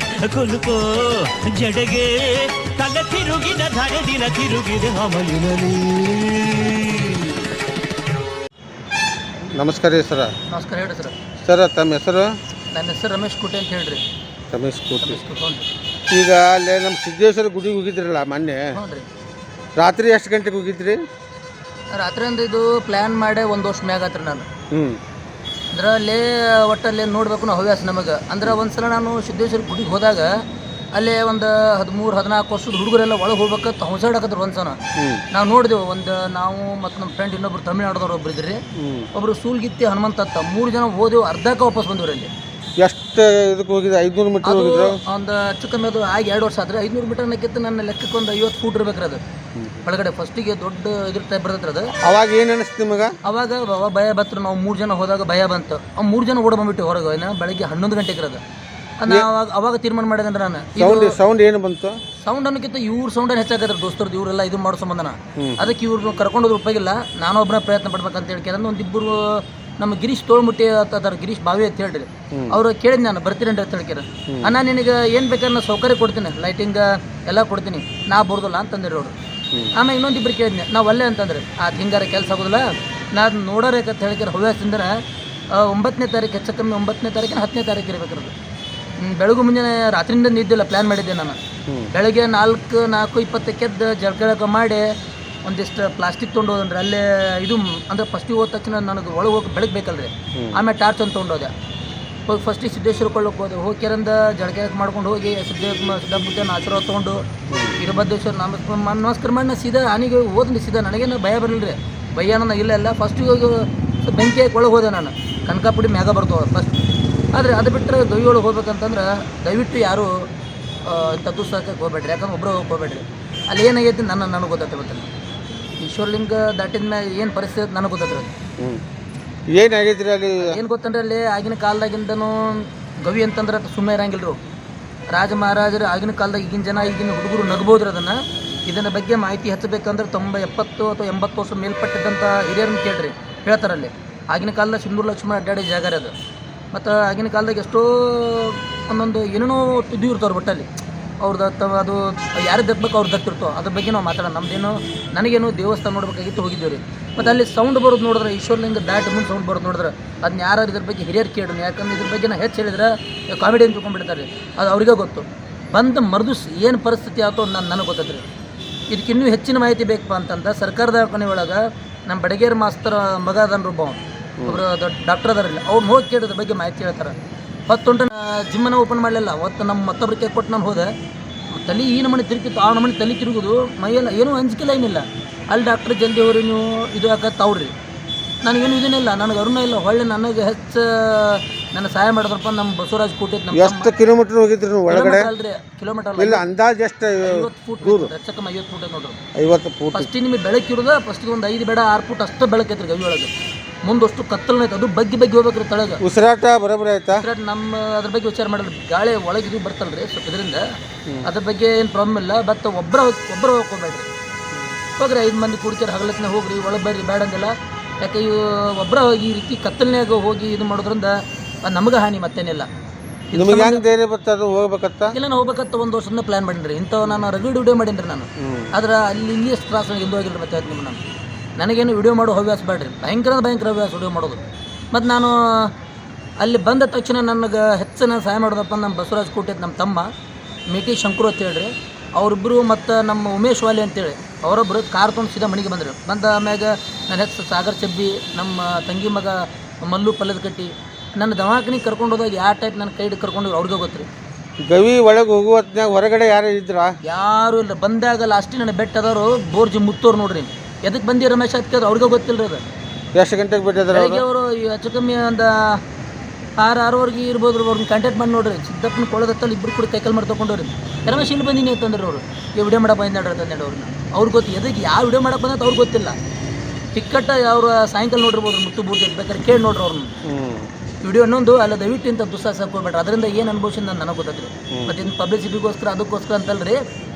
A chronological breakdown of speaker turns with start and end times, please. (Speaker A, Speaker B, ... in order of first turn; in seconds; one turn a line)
Speaker A: 0.3-7.4
Speaker B: 9.6-10.3
Speaker C: 10.5-11.1
Speaker B: 11.4-12.3
Speaker C: 12.7-14.0
Speaker B: 14.5-15.2
Speaker C: 15.0-15.7
Speaker B: 16.1-18.6
Speaker C: 18.7-19.1
Speaker B: 19.8-21.0
Speaker C: 21.9-24.5
Speaker B: 24.7-25.0
Speaker C: 25.7-30.3
Speaker C: 30.9-34.8
Speaker C: 35.3-38.6
Speaker B: 38.8-39.1
Speaker C: 39.1-42.3
Speaker B: 42.8-45.0
Speaker C: 44.4-49.2
Speaker C: 49.8-51.9
Speaker B: 52.0-53.1
Speaker C: 53.2-58.4
Speaker C: 59.0-61.1
Speaker B: 60.8-61.9
Speaker C: 62.2-69.2
Speaker B: 65.4-65.7
Speaker C: 69.8-79.1
Speaker C: 79.8-84.9
Speaker C: 85.6-88.3
Speaker C: 89.0-91.4
Speaker C: 91.9-94.8
Speaker C: 95.5-101.5
Speaker C: 102.3-107.2
Speaker C: 107.8-116.8
Speaker C: 117.3-120.1
Speaker C: 120.9-125.1
Speaker C: 125.8-128.3
Speaker B: 129.6-130.6
Speaker C: 130.4-134.4
Speaker C: 135.1-138.2
Speaker C: 138.7-146.1
Speaker C: 146.7-150.7
Speaker C: 151.2-168.3
Speaker C: 168.9-177.2
Speaker C: 177.7-180.9
Speaker C: 181.6-187.7
Speaker C: 188.4-193.9
Speaker B: 193.5-195.3
Speaker C: 194.9-196.4
Speaker B: 196.2-198.1
Speaker C: 197.2-199.2
Speaker B: 199.4-200.1
Speaker C: 199.9-203.3
Speaker C: 203.8-206.0
Speaker B: 206.0-207.2
Speaker C: 207.1-210.6
Speaker C: 211.3-214.1
Speaker C: 215.0-221.1
Speaker C: 221.7-222.7
Speaker C: 223.3-223.8
Speaker B: 223.3-225.1
Speaker C: 225.1-231.0
Speaker B: 228.4-228.7
Speaker C: 231.6-234.4
Speaker C: 234.9-235.7
Speaker C: 236.4-240.1
Speaker C: 240.7-254.1
Speaker B: 254.6-256.9
Speaker C: 257.0-262.6
Speaker B: 263.1-264.2
Speaker C: 263.9-265.8
Speaker C: 266.6-276.1
Speaker C: 276.9-280.1
Speaker B: 280.2-280.7
Speaker C: 281.0-286.8